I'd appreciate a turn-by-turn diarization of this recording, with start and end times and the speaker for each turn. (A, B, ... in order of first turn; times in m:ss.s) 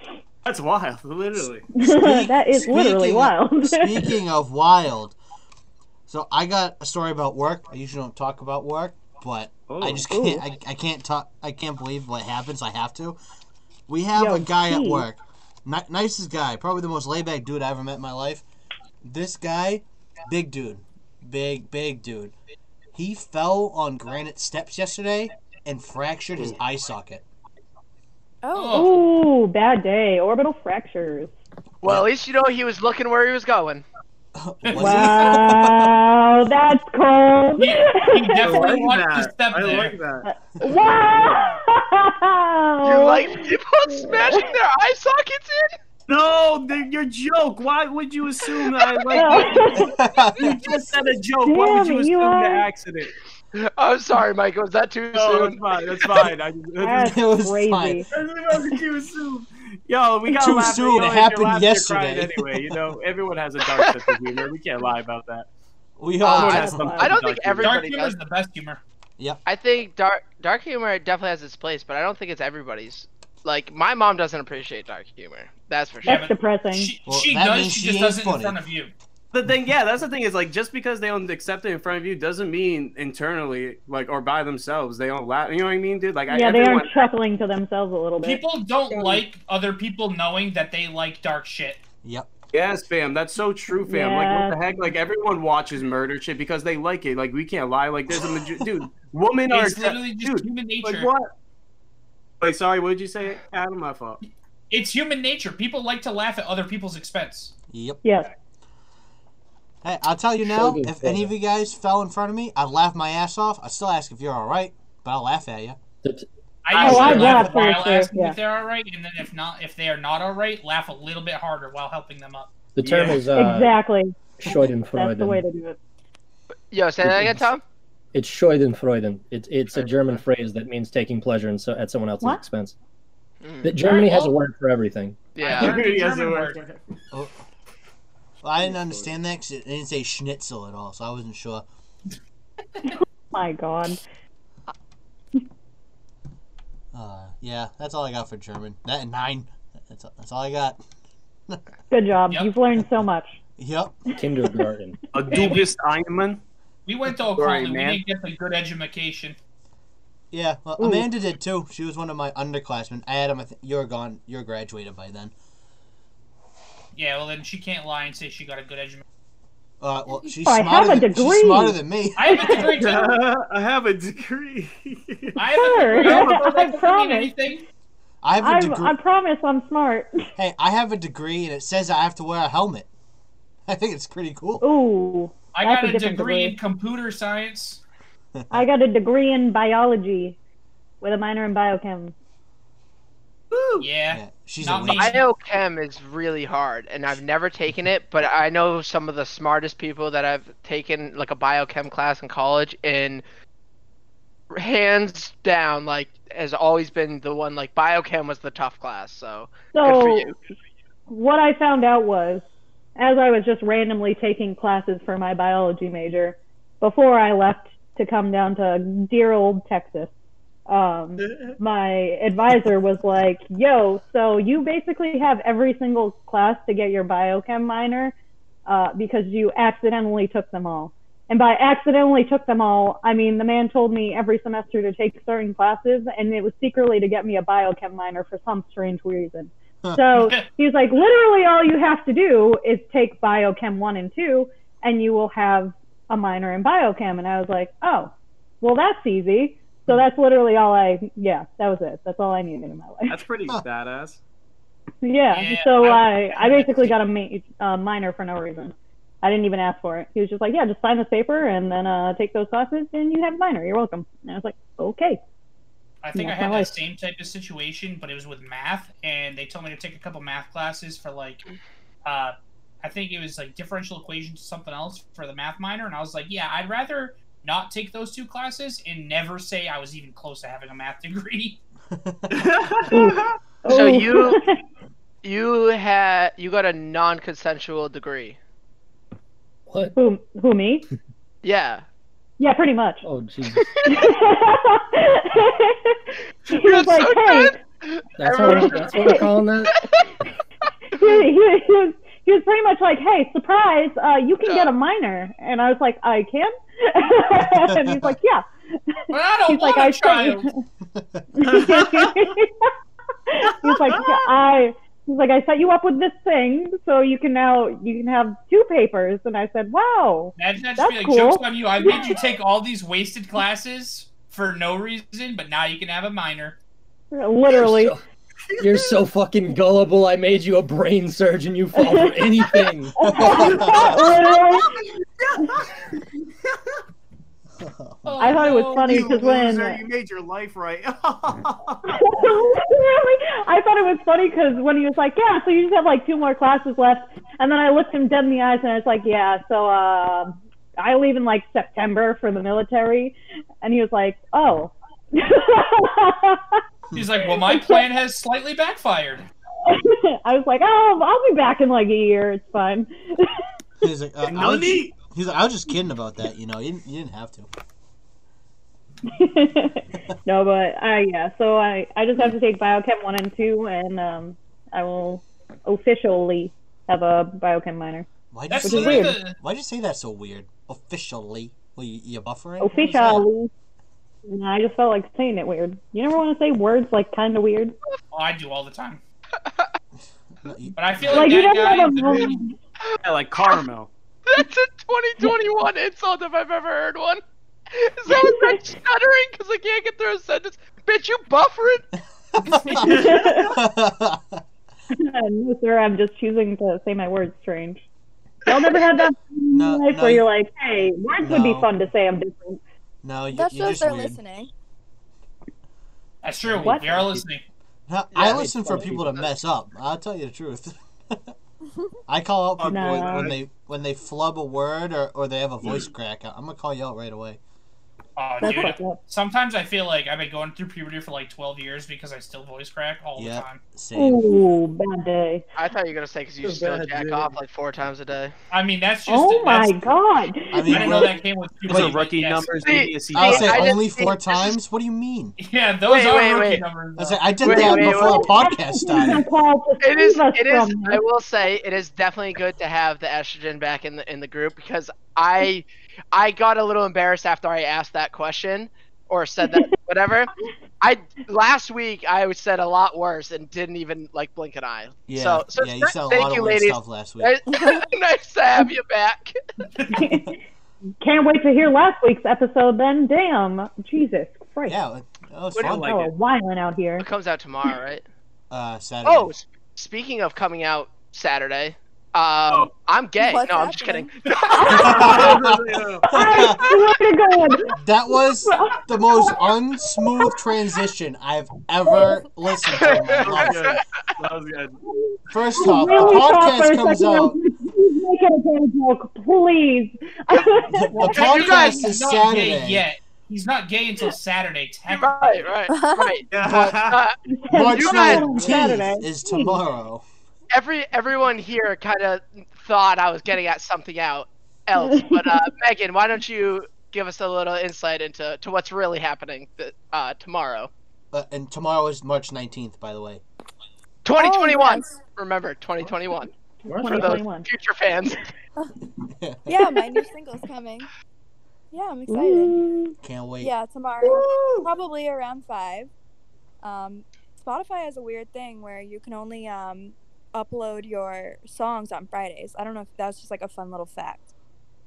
0:00.4-0:01.7 A
0:01.8-0:04.1 B
0:01.8-0:05.2 C
0:06.1-0:13.2 C
0:09.7-0:10.1 A
0:10.1-0:10.4 B
0:13.9-0:18.4 C
0:14.2-0:15.0 B
0:19.0-0:22.3 C
0:22.9-0:27.2 C
0:28.4-0:28.9 D
0:28.6-0:29.0 E
0:28.7-0:31.3 B
0:31.8-0:33.8 F
0:34.4-0:36.0 C
0:34.7-0:35.1 E
0:34.8-0:38.8 B
0:37.6-0:40.0 E
0:38.4-0:40.3 A
0:40.2-0:44.5 B
0:42.8-0:45.8 F
0:46.1-0:53.2 A
0:49.1-0:49.9 B
0:49.8-0:50.8 C
0:51.5-0:52.7 B
0:53.6-0:56.2 F
0:55.1-0:57.2 A
0:56.8-0:58.1 B
0:57.0-0:58.0 C
0:58.1-1:05.5 A
1:00.3-1:02.8 C
1:06.0-1:06.9 C
1:06.2-1:08.2 F
1:06.3-1:07.7 A
1:06.6-1:07.1 B
1:07.6-1:08.8 E
1:09.5-1:16.2 F
1:16.1-1:16.9 B
1:16.1-1:18.9 E
1:17.1-1:18.6 C
1:19.3-1:27.1 A
1:26.3-1:28.4 B
1:28.2-1:31.8 E
1:32.0-1:32.3 C
1:32.5-1:41.3 A
1:33.9-1:34.6 B
1:39.5-1:41.1 E
1:42.4-1:44.2 A
1:44.7-1:47.5 E
1:47.7-1:48.0 C
1:48.0-1:48.3 B
1:49.8-1:55.8 C
1:50.4-1:51.3 G
1:56.6-2:02.5 E
1:56.8-1:58.4 B
1:56.8-1:57.6 G
1:56.9-1:57.5 C
2:02.8-2:03.8 G
2:02.8-2:03.2 A
2:03.3-2:05.8 B
2:04.4-2:05.4 G
2:06.7-2:07.6 F
2:08.1-2:12.8 G
2:09.8-2:10.2 F
2:13.4-2:13.7 F
2:13.6-2:15.3 G
2:13.8-2:14.4 E
2:15.4-2:15.8 F
2:15.4-2:16.6 E
2:15.4-2:16.8 A
2:18.4-2:21.6 C
2:23.3-2:24.0 B
2:26.9-2:30.8 C
2:31.9-2:33.4 B
2:32.3-2:32.6 E
2:33.6-2:34.0 C
2:34.2-2:35.0 G
2:35.1-2:36.4 A
2:35.3-2:35.7 E
2:36.9-2:39.4 E
2:37.4-2:38.0 A
2:40.3-2:45.3 C
2:40.8-2:41.1 B
2:47.0-2:49.0 E
2:49.8-2:52.6 C
2:50.4-2:52.8 B
2:52.2-2:53.2 E
2:52.8-2:56.5 A
2:55.4-2:57.6 E
2:55.6-2:57.3 B
2:58.2-2:59.0 C
2:58.4-3:00.1 B
3:00.4-3:02.9 C
3:03.7-3:04.6 C
3:04.6-3:06.6 B
3:05.5-3:07.8 E
3:08.4-3:08.7 C
3:08.5-3:10.4 B
3:11.0-3:12.1 B
3:13.5-3:13.8 A
3:13.8-3:15.2 E
3:14.1-3:15.1 C
3:14.9-3:23.2 F
3:24.5-3:30.4 F
3:29.7-3:30.2 B
3:31.1-3:32.4 B
3:33.0-3:40.1 B
3:40.7-3:48.1 B
3:41.2-3:41.6 A
3:48.7-4:13.2 B
4:00.1-4:00.5 E
4:13.1-4:14.2 A
4:15.0-4:25.2 B
4:15.3-4:17.0 E
4:26.0-4:31.4 E
4:26.2-4:26.8 B
4:32.0-4:41.6 E
4:41.9-4:42.9 C
4:42.3-4:43.4 A
4:42.9-4:44.6 B
4:43.7-4:44.4 F
4:45.2-4:48.4 F
4:49.7-4:50.0 G
4:50.0-4:50.9 B
4:51.4-4:51.8 F
4:52.4-4:53.0 B
4:53.0-4:53.7 G
4:53.5-4:54.1 F
4:53.9-4:57.5 B
4:56.5-5:00.1 F
4:58.2-4:59.8 G
4:58.4-4:59.3 B
5:01.0-5:01.3 F
5:01.0-5:10.5 B
5:04.4-5:04.7 F
5:07.5-5:08.2 C
5:09.1-5:10.5 E
5:10.9-5:11.3 C
5:11.4-5:12.7 B
5:11.5-5:12.3 A
5:13.3-5:22.3 B
5:13.5-5:14.3 A
5:20.4-5:26.6 E
5:27.1-5:28.0 B
5:27.5-5:28.0 G
5:28.5-5:29.0 A
5:28.6-5:33.0 G
5:31.8-5:32.2 B
5:33.0-5:34.9 B
5:33.0-5:34.0 C
5:33.4-5:34.6 A
5:35.2-5:35.9 A
5:37.6-5:38.7 C
5:38.0-5:39.1 E
5:38.2-5:39.8 B
5:38.8-5:41.8 A
5:41.9-5:56.6 B
5:56.9-5:59.3 E
5:57.2-5:57.9 B
5:59.6-6:03.4 B
6:03.8-6:07.5 C
6:04.2-6:04.9 A
6:09.1-6:18.1 B
6:18.3-6:23.3 C
6:18.5-6:19.4 E
6:18.6-6:19.2 B
6:22.6-6:23.5 B
6:22.8-6:23.2 E
6:24.2-6:27.8 B
6:28.1-6:29.0 E
6:29.4-6:29.7 F
6:30.4-6:31.5 C
6:30.8-6:32.4 E
6:31.1-6:32.6 B
6:32.9-6:33.6 F
6:33.0-6:33.9 A
6:34.3-6:37.2 F
6:37.7-6:41.9 F
6:38.1-6:38.6 B
6:42.4-6:44.4 C
6:42.8-6:43.6 B
6:42.8-6:43.5 A
6:44.9-6:47.8 B
6:48.5-6:52.6 B
6:49.5-6:50.3 C
6:51.2-6:51.7 C
6:53.0-6:54.2 C
6:53.3-6:54.5 D
6:56.2-6:57.4 E
6:56.6-6:57.0 B
6:57.9-7:01.3 C
6:58.2-6:59.2 G
7:02.1-7:07.4 C
7:02.6-7:03.4 A
7:02.7-7:03.3 B
7:08.2-7:13.6 E
7:08.4-7:09.0 B
7:13.2-7:14.4 C
7:14.0-7:15.4 B
7:15.6-7:18.3 F
7:16.4-7:17.3 A
7:18.5-7:19.9 E
7:19.1-7:21.1 B
7:20.5-7:22.0 C
7:20.7-7:22.8 E
7:21.7-7:23.7 A
7:22.6-7:24.6 F
7:23.1-7:25.4 C
7:25.4-7:27.4 E
7:25.9-7:26.6 F
7:27.0-7:29.2 C
7:27.4-7:28.3 F
7:27.5-7:31.0 B
7:29.8-7:49.4 F
7:45.1-7:47.4 C
7:47.5-7:47.8 D
7:49.8-7:50.4 B
7:51.0-7:54.8 B
7:54.7-7:56.0 C
7:55.6-7:56.1 A
7:55.8-7:57.1 B
7:57.0-7:58.0 F
7:58.5-7:59.3 C
7:59.0-8:05.3 F
8:03.2-8:04.1 D
8:04.6-8:05.2 B
8:04.6-8:06.1 A
8:04.7-8:06.7 C
8:06.1-8:10.5 B
8:07.8-8:13.6 C
8:12.8-8:13.8 F
8:13.2-8:14.8 A
8:15.0-8:21.2 B
8:15.3-8:17.4 C
8:20.8-8:22.8 C
8:21.0-8:25.5 E
8:21.1-8:21.8 F
8:24.9-8:26.3 F
8:25.7-8:26.2 D
8:26.3-8:27.0 A
8:26.4-8:26.9 C
8:26.8-8:27.2 F
8:27.4-8:29.6 B
8:27.5-8:30.0 C
8:27.7-8:28.5 F
8:30.5-8:40.7 F
8:34.8-8:35.4 B
8:41.1-8:43.2 C
8:44.0-8:46.3 F
8:44.2-8:44.9 D
8:46.7-8:47.2 G
8:46.7-8:47.5 B
8:46.9-8:48.2 F
8:49.2-8:49.5 C
8:49.5-8:50.9 D
8:51.7-8:52.6 D
8:52.1-8:53.0 B
8:53.0-8:53.5 C
8:53.4-8:55.9 D
8:54.0-8:54.7 A
8:56.6-9:04.3 D